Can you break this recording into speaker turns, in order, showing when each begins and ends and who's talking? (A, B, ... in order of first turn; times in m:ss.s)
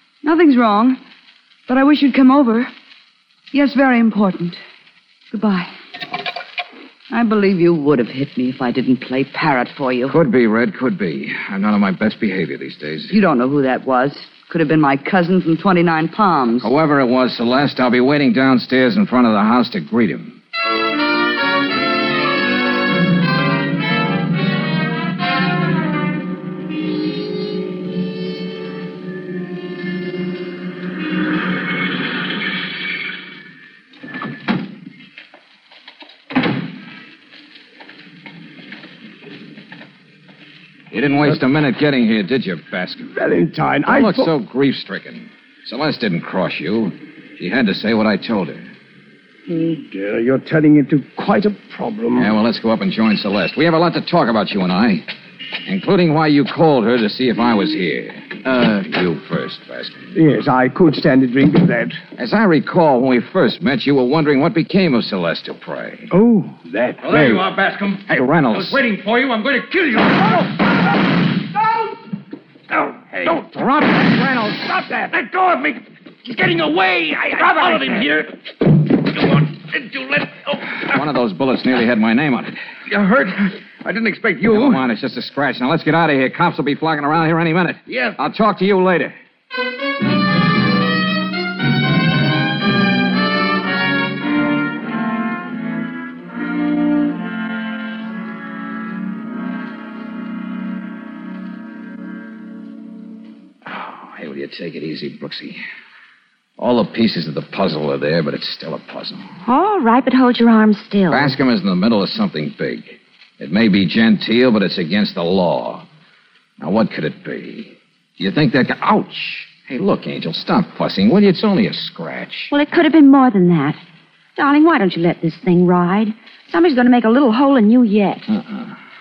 0:00.2-0:01.0 A
0:01.7-0:02.7 A
0:03.5-0:04.6 A
0:05.3-0:05.7 A
0:07.1-0:10.1 A
0:10.1-0:13.1 B
0:13.1-0:16.7 A
0:16.6-0:20.4 B
0:40.9-0:43.1 B
0:43.1-0:44.3 C
0:43.9-0:48.7 B
0:49.5-0:52.3 C
0:52.2-0:55.1 B
0:55.6-1:00.0 B
1:00.1-1:02.0 C
1:02.2-1:06.1 B
1:06.1-1:07.4 C
1:07.1-1:08.8 B
1:07.2-1:07.7 D
1:08.6-1:10.1 D
1:13.2-1:15.0 B
1:17.6-1:18.3 D
1:19.1-1:20.4 D
1:20.8-1:22.6 B
1:22.9-1:24.7 D
1:24.4-1:29.1 B
1:27.9-1:28.2 D
1:43.6-1:45.6 B
1:46.6-1:49.2 B
1:49.4-1:51.3 E
1:51.1-1:55.8 B
1:56.6-2:02.5 B
2:02.5-2:03.8 E
2:04.4-2:08.3 E
2:08.3-2:08.6 B